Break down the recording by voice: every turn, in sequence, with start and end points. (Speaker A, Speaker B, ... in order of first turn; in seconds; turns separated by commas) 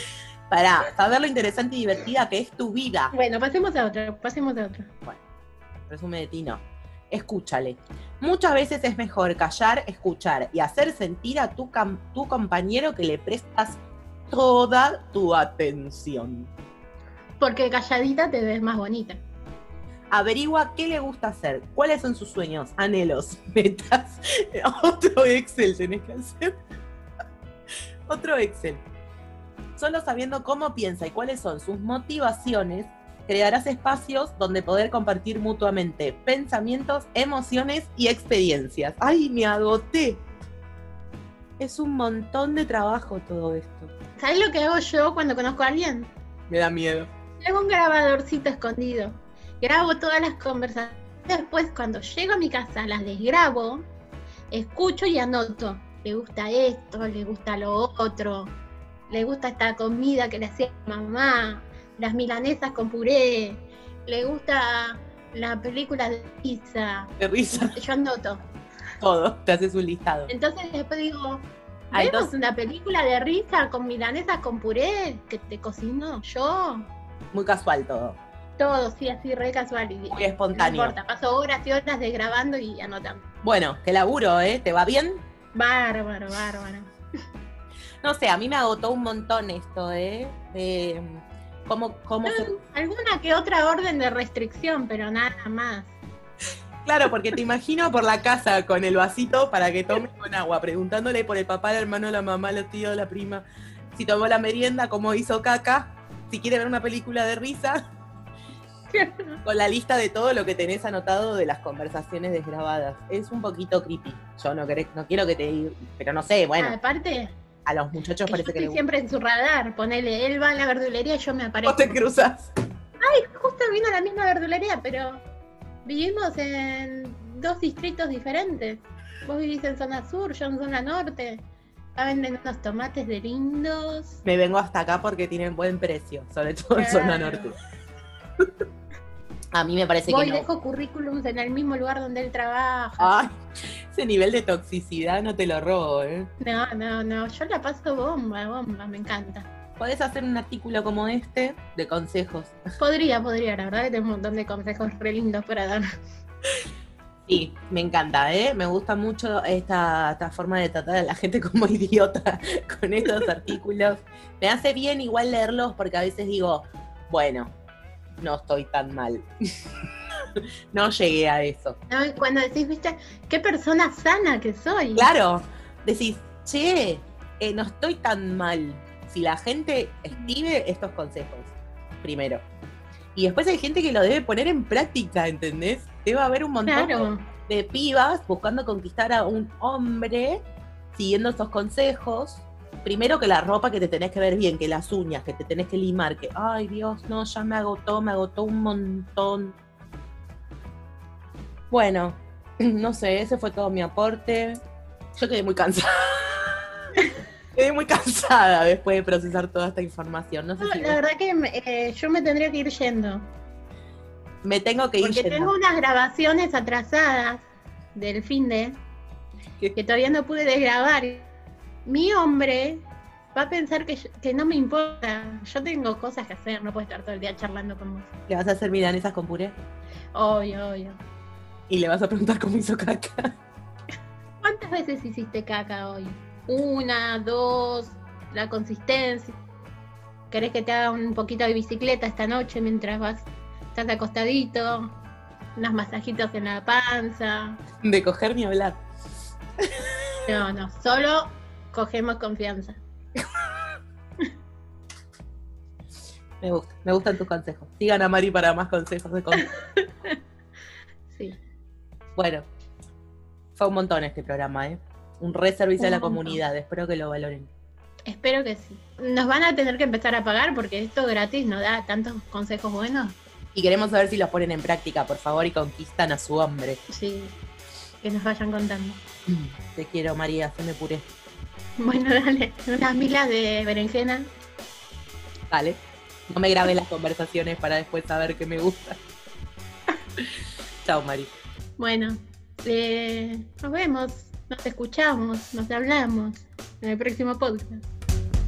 Speaker A: 0.5-3.1, Speaker B: 3.1-4.9, Speaker A: 5.9-16.5, Speaker B: 17.4-19.2, Speaker A: 20.1-26.5, Speaker A: 28.1-28.8, Speaker A: 29.8-40.2, Speaker A: 41.6-43.9, Speaker B: 44.2-46.1, Speaker A: 46.5-47.1, Speaker B: 47.4-53.9, Speaker B: 54.5-58.5, Speaker B: 59.1-68.4, Speaker A: 67.2-67.8, Speaker A: 69.0-70.3, Speaker B: 70.3-76.9, Speaker A: 71.9-72.3, Speaker A: 77.3-78.2, Speaker B: 78.6-83.2, Speaker A: 80.1-81.0, Speaker A: 83.4-85.2, Speaker B: 85.5-86.9, Speaker A: 88.0-92.6, Speaker B: 92.2-95.9, Speaker A: 96.8-103.4, Speaker A: 104.0-107.8, Speaker B: 108.9-109.4, Speaker A: 109.5-116.8, Speaker B: 116.6-117.3, Speaker A: 117.7-118.8, Speaker B: 118.3-122.0, Speaker A: 121.7-122.5, Speaker B: 123.0-125.2, Speaker B: 125.8-131.4, Speaker B: 132.0-134.2, Speaker A: 134.2-137.6, Speaker B: 136.8-137.5, Speaker A: 139.5-140.5, Speaker B: 140.1-143.1, Speaker A: 143.0-143.4, Speaker A: 143.9-146.3, Speaker B: 146.4-149.5, Speaker A: 149.8-152.6, Speaker B: 152.8-155.9, Speaker A: 157.3-167.5, Speaker A: 168.2-169.3, Speaker A: 170.3-171.8, Speaker B: 171.9-175.1, Speaker A: 175.0-182.4, Speaker A: 183.2-190.4, Speaker B: 186.7-187.3, Speaker A: 190.9-199.6, Speaker A: 201.7-204.6, Speaker A: 205.2-206.7, Speaker A: 207.5-211.0, Speaker B: 210.6-213.2, Speaker A: 214.4-215.5, Speaker B: 215.0-218.8, Speaker B: 219.8-221.3, Speaker B: 221.9-222.8, Speaker B: 223.3-228.1, Speaker A: 228.3-229.6, Speaker B: 230.2-231.0, Speaker A: 231.7-233.3, Speaker B: 234.4-239.4, Speaker B: 240.3-244.9, Speaker B: 245.6-247.6, Speaker A: 247.8-248.8, Speaker A: 249.6-250.2, Speaker B: 250.3-252.8, Speaker A: 256.4-259.5, Speaker B: 259.3-260.1, Speaker B: 261.1-261.4, Speaker A: 262.2-262.4, Speaker A: 263.6-267.5, Speaker B: 265.8-266.4, Speaker B: 268.1-273.2, Speaker A: 273.6-276.8, Speaker B: 276.9-277.4, Speaker B: 278.0-279.0, Speaker A: 279.3-281.1, Speaker B: 281.8-284.3, Speaker A: 285.5-289.0, Speaker A: 290.9-291.3, Speaker B: 291.8-297.8